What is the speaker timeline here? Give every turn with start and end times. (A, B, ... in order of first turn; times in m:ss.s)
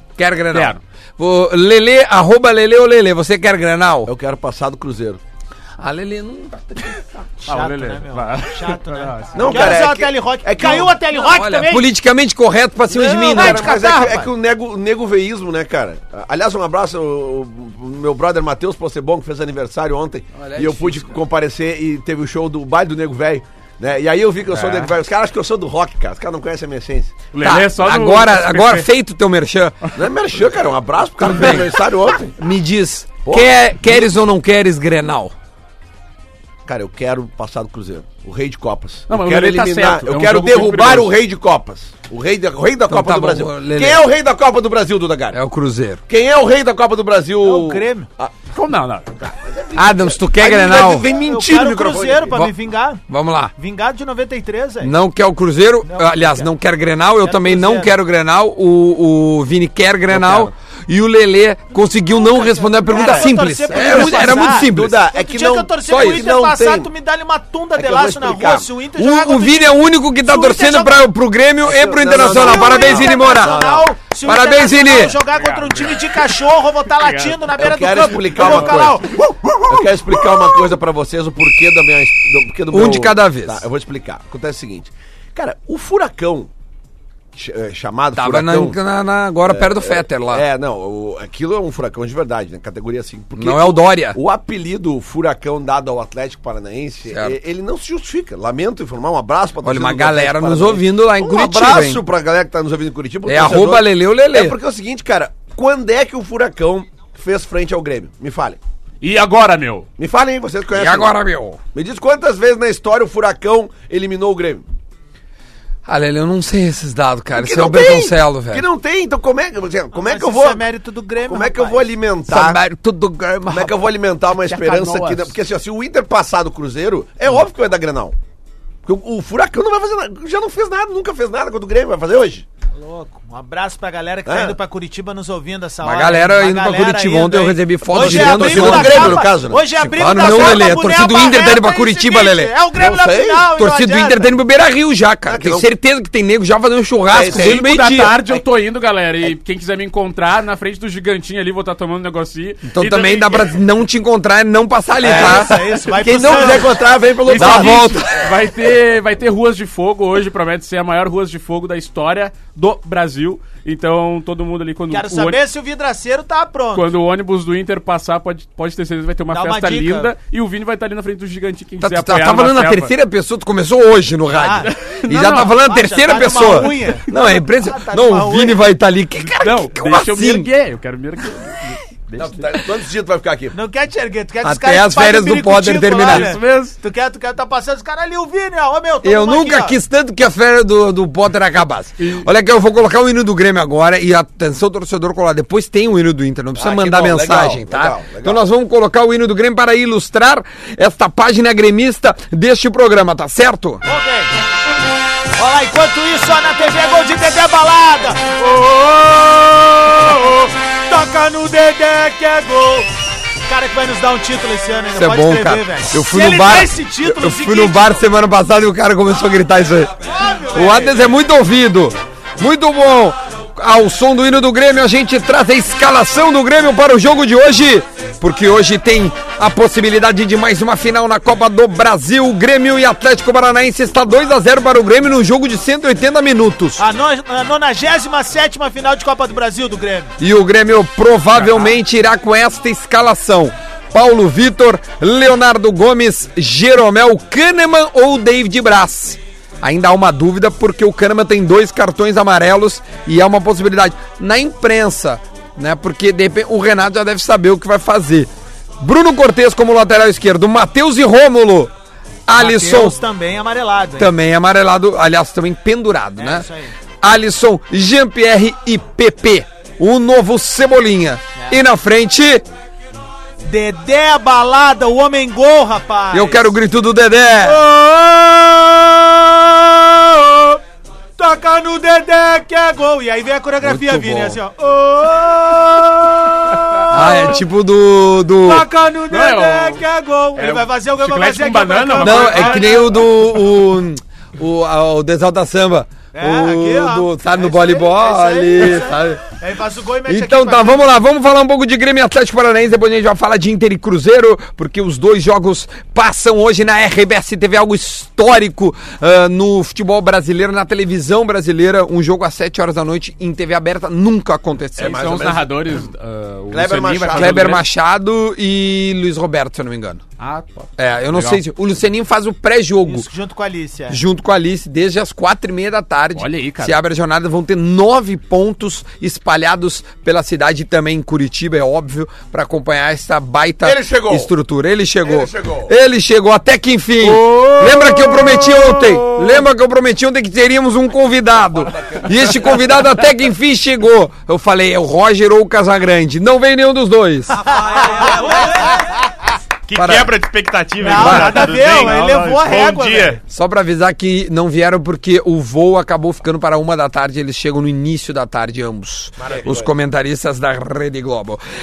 0:00.2-0:04.1 A
0:00.5-0:00.8 B
0:04.1-0:05.2 C
0:05.8-0:07.3 A
0:07.4-0:11.9 D
0:07.5-0:09.8 B
0:09.3-0:11.0 C
0:11.2-0:13.8 A
0:12.9-0:14.3 D
0:13.1-0:27.2 C
0:20.4-0:21.1 A
0:24.5-0:24.9 B
0:27.3-0:28.9 B
0:27.4-0:29.8 A
0:30.0-0:32.3 C
0:31.2-0:31.7 A
0:32.4-0:35.3 A
0:33.2-0:34.1 C
0:36.6-0:45.4 C
0:39.1-0:41.2 B
0:42.9-0:44.1 A
0:45.3-0:46.0 A
0:46.1-0:48.4 C
0:47.4-0:48.1 D
0:48.5-0:49.1 B
0:49.2-0:52.4 C
0:49.8-0:51.1 A
0:50.9-0:53.0 D
0:53.1-0:53.5 A
0:53.6-0:54.9 D
0:54.8-1:05.0 A
0:55.8-0:56.5 D
0:57.2-0:58.0 D
1:00.1-1:00.5 C
1:02.1-1:11.0 D
1:02.9-1:06.9 C
1:05.9-1:06.3 A
1:07.8-1:08.7 C
1:09.0-1:13.6 A
1:11.7-1:13.9 C
1:12.1-1:19.3 D
1:14.2-1:15.2 A
1:15.2-1:16.3 B
1:16.9-1:17.5 B
1:17.6-1:26.5 C
1:18.4-1:18.8 B
1:22.7-1:23.7 A
1:27.3-1:28.8 C
1:28.2-1:30.4 A
1:29.5-1:48.6 C
1:33.4-1:34.2 A
1:37.1-1:37.4 A
1:39.6-1:42.0 A
1:43.2-1:44.6 A
1:49.0-1:49.9 B
1:50.0-1:51.1 C
1:50.7-1:51.6 A
1:51.7-1:54.6 C
1:55.8-1:58.6 A
1:57.4-2:00.7 C
1:59.9-2:01.9 D
2:01.3-2:02.6 C
2:02.3-2:03.9 A
2:03.5-2:08.2 C
2:04.3-2:05.4 B
2:08.9-2:12.4 C
2:12.7-2:24.3 D
2:14.3-2:14.6 C
2:15.8-2:19.3 A
2:17.9-2:20.7 C
2:19.9-2:22.6 A
2:22.7-2:23.5 C
2:23.6-2:28.2 A
2:25.3-2:25.7 C
2:27.1-2:27.7 C
2:27.2-2:33.6 B
2:32.7-2:36.6 A
2:35.0-2:36.8 D
2:35.0-2:38.0 C
2:37.2-2:45.4 B
2:37.3-2:38.3 A
2:44.9-2:46.9 D
2:46.7-2:52.9 B
2:49.3-2:50.1 D
2:51.8-3:00.5 A
2:54.4-2:54.7 D
2:54.6-2:55.5 B
2:55.3-2:58.7 D
2:59.3-3:02.6 B
3:02.2-3:03.6 C
3:03.5-3:09.8 D
3:04.4-3:06.3 A
3:06.0-3:06.8 B
3:09.0-3:23.8 A
3:12.0-3:12.3 B
3:16.6-3:18.4 C
3:23.8-3:24.3 D
3:25.4-3:32.9 D
3:33.5-3:38.0 D
3:34.9-3:39.9 A
3:40.0-3:41.1 D
3:40.5-3:56.8 A
3:56.8-4:00.1 D
4:00.2-4:21.7 A
4:22.3-4:23.0 A
4:22.4-4:24.1 D
4:24.0-4:26.5 A
4:26.2-4:26.7 D
4:27.0-4:32.4 A
4:31.4-4:31.6 D
4:33.4-4:36.5 D
4:36.1-4:37.6 A
4:37.4-4:40.6 D
4:41.2-4:47.4 D
4:43.6-4:44.4 A
4:46.9-4:48.7 A
4:48.4-4:53.0 D
4:49.1-4:52.8 B
4:52.0-4:59.2 A
4:56.1-5:00.9 D
5:00.1-5:15.2 A
5:14.8-5:17.6 B
5:14.8-5:15.8 C
5:16.5-5:17.6 C
5:17.1-5:20.0 A
5:20.2-5:21.4 B
5:20.8-5:23.1 A
5:22.8-5:24.0 D
5:23.9-5:47.4 A
5:26.2-5:26.8 B
5:33.6-5:34.3 C
5:35.0-5:35.7 C
5:37.0-5:39.4 B
5:41.5-5:42.9 C
5:47.4-5:48.7 C
5:47.7-5:48.7 D
5:49.7-5:53.2 E
5:49.8-5:50.2 A
5:50.8-5:53.2 D
5:50.9-5:51.5 A
5:51.6-5:52.4 B
5:53.3-6:01.4 A
5:59.2-5:59.6 E
5:59.3-5:59.7 C